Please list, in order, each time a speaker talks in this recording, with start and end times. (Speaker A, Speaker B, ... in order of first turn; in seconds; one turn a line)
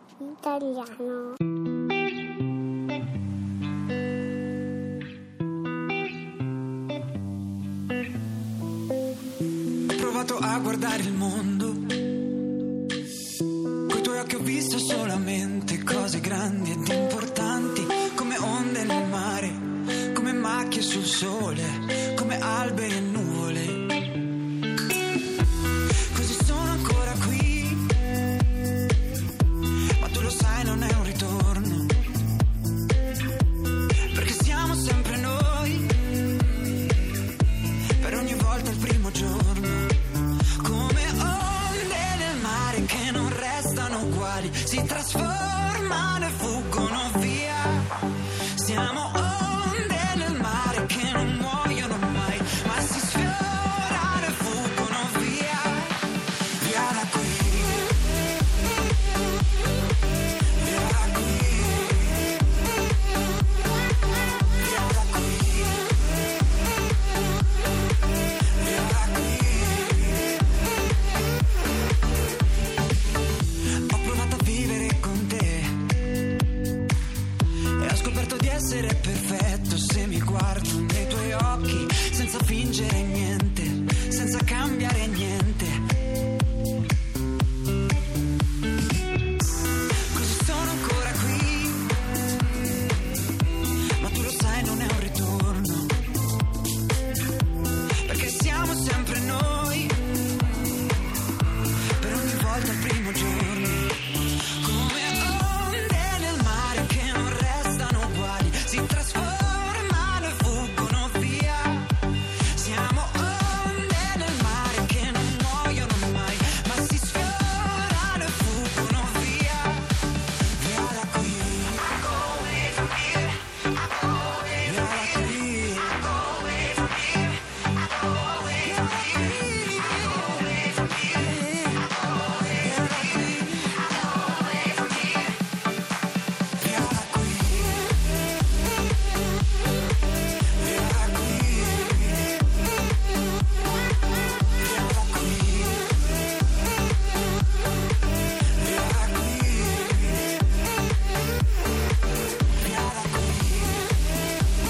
Speaker A: 9.9-12.0
Speaker A: 13.9-24.1
Speaker A: 26.1-28.0
Speaker A: 30.0-31.9
Speaker A: 34.1-36.2
Speaker A: 38.0-47.9
Speaker A: 48.5-58.0
Speaker A: 60.5-62.3
Speaker A: 64.6-65.8
Speaker A: 68.5-70.3
Speaker A: 73.9-75.9
Speaker A: 77.8-85.8
Speaker A: 90.1-91.9
Speaker A: 94.0-95.9
Speaker A: 98.0-100.1
Speaker A: 102.0-123.3
Speaker A: 124.4-127.1
Speaker A: 128.5-131.8
Speaker A: 132.5-133.8
Speaker A: 136.6-137.8
Speaker A: 140.5-142.4
Speaker A: 144.6-145.8
Speaker A: 148.6-150.3
Speaker A: 152.6-153.8